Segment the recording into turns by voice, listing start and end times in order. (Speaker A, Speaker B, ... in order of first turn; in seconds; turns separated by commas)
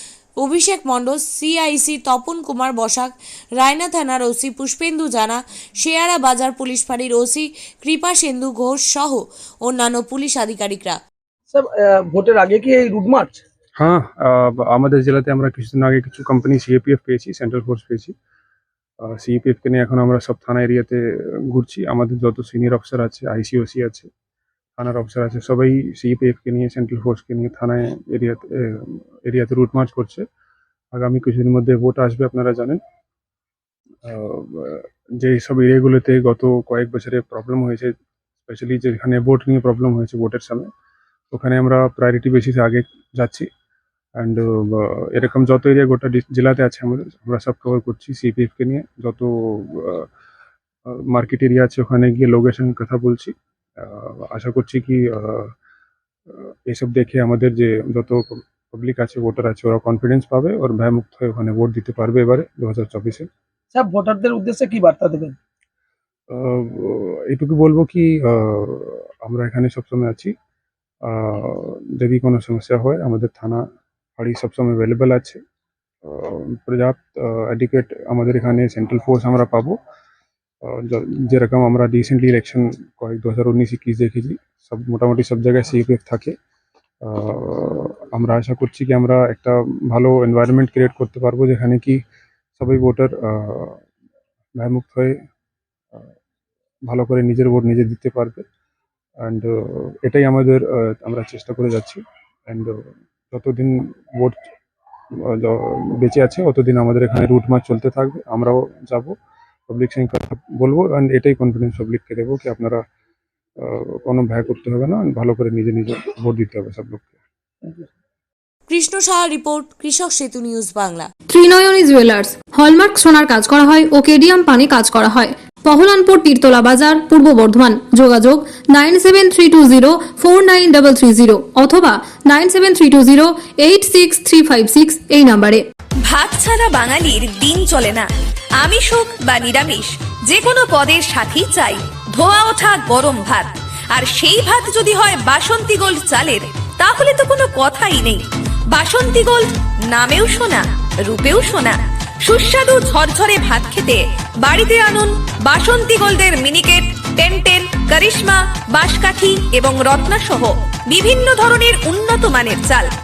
Speaker A: 0.4-11.0, Speaker B: 11.5-13.4, Speaker C: 13.8-18.1, Speaker C: 19.0-24.1, Speaker C: 24.8-30.2, Speaker C: 30.9-32.8, Speaker C: 34.0-37.9, Speaker C: 38.5-40.7, Speaker C: 41.3-43.5, Speaker C: 44.2-50.1, Speaker C: 50.9-55.5, Speaker C: 56.3-63.3, Speaker B: 63.7-65.4, Speaker C: 66.3-70.3, Speaker C: 71.1-73.6, Speaker C: 74.2-75.4, Speaker C: 76.0-79.8, Speaker C: 80.6-86.3, Speaker C: 87.0-92.0, Speaker C: 92.6-93.8, Speaker C: 94.6-95.2, Speaker C: 96.9-98.4, Speaker C: 99.2-102.8, Speaker C: 103.3-104.4, Speaker C: 105.2-109.1, Speaker C: 109.7-112.8, Speaker C: 113.6-117.1, Speaker A: 118.7-121.1, Speaker D: 121.3-135.6, Speaker E: 136.1-138.1, Speaker E: 138.6-162.9